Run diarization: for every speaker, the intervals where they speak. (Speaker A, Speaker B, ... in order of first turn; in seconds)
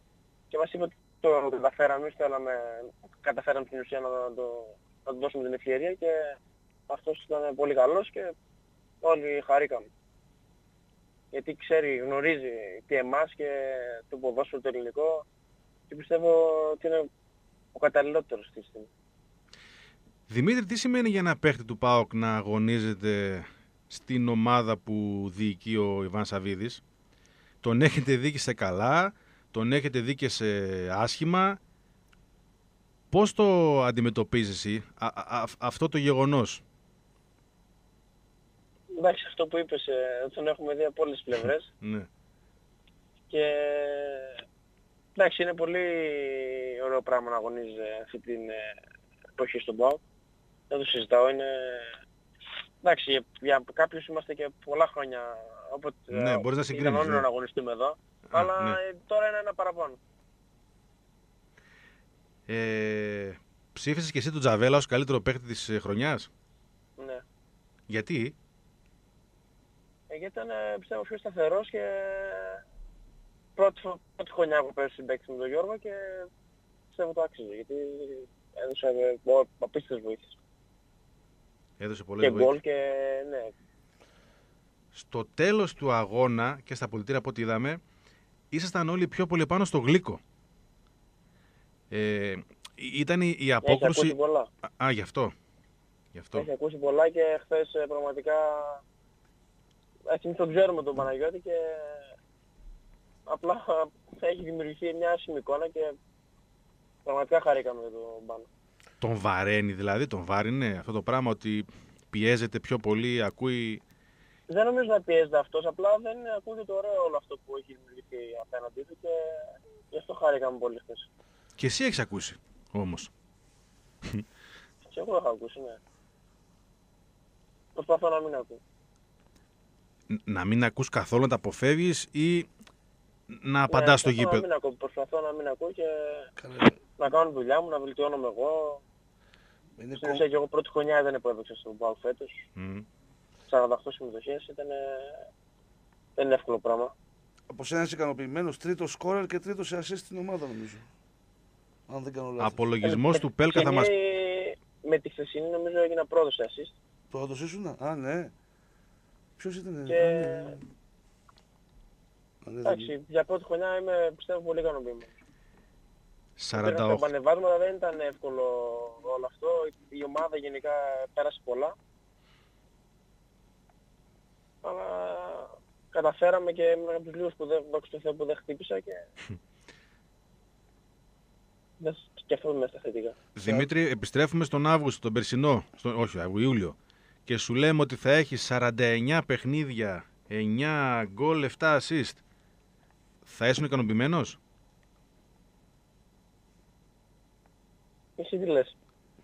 Speaker A: 0.5-6.3, 6.9-8.3, 9.0-9.9, 11.3-15.2, 15.9-17.1, 17.7-18.9, 39.0-41.7, 43.3-44.4, 45.2-48.8, 49.4-50.0, 50.7-51.9, 52.8-60.0, 67.0-67.2, 70.1-72.6, 73.6-76.3, 76.9-80.3, 82.2-83.5, 93.6-94.5, 96.3-98.8, 100.1-102.1, 103.3-105.9, 107.0-108.5, 114.5-121.1, 124.9-125.8, 127.8-128.6, 133.7-136.3, 137.0-138.8, 140.0-142.4, 143.5-145.2, 146.2-146.9, 152.8-156.7, 159.9-160.6, 162.7-165.2, 166.5-171.8, 174.6-179.0, 181.8-183.2, 198.2-198.7
Speaker B: 20.3-26.8, 27.6-31.6, 33.1-36.6, 41.8-42.1, 56.1-57.2, 58.3-58.8, 62.5-66.3, 67.9-68.3, 81.8-82.5, 84.9-87.8, 88.5-90.2, 91.9-94.2, 94.8-95.3, 96.1-96.5, 109.0-113.8, 121.6-123.1, 130.1-132.5, 133.3-134.4, 142.6-142.8, 152.4-153.9, 166.4-167.1, 183.4-192.2, 193.2-194.4
Speaker C: 136.4-136.8, 139.8-140.2, 147.5-150.9, 151.9-152.7, 157.1-158.3, 159.4-160.6, 162.4-162.9